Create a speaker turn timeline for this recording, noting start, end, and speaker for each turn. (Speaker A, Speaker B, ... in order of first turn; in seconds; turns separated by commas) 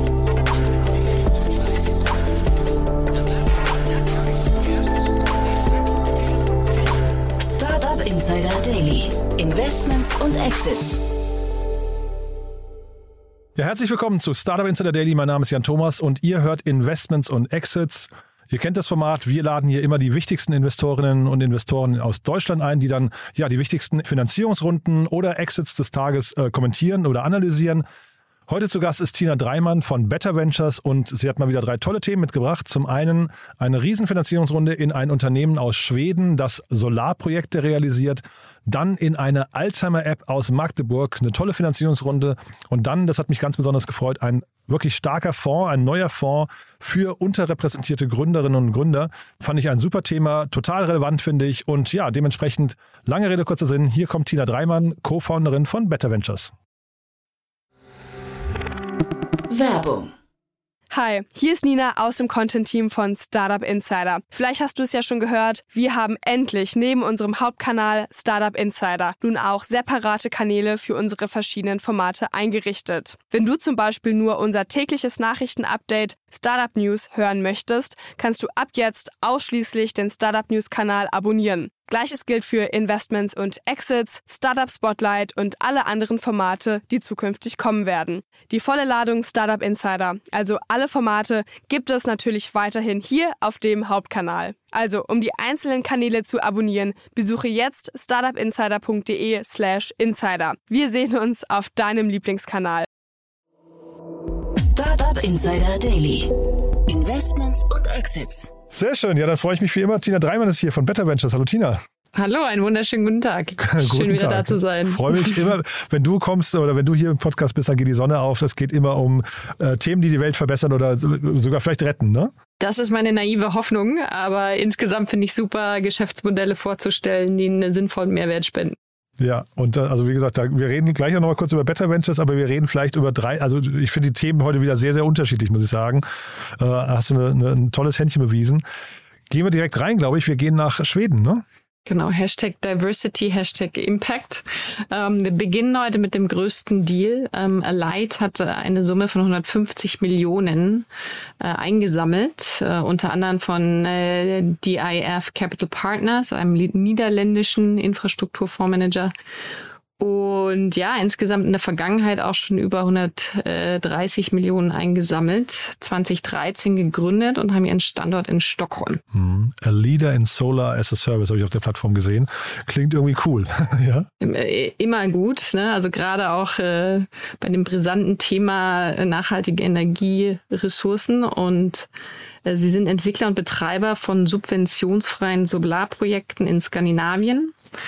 Speaker A: 7.4-11.0, Speaker B: 13.6-27.8, Speaker B: 28.5-56.5, Speaker A: 59.5-60.1, Speaker C: 60.9-102.9, Speaker A: 104.5-106.3, Speaker A: 106.9-108.5, Speaker B: 108.7-111.8, Speaker D: 112.1-115.5, Speaker B: 113.6-122.3, Speaker D: 122.6-128.8, Speaker B: 129.2-138.6, Speaker B: 139.3-141.4, Speaker D: 141.8-150.8, Speaker D: 151.4-159.1, Speaker D: 160.0-169.0, Speaker B: 169.1-174.1, Speaker D: 174.2-181.9, Speaker D: 182.4-187.5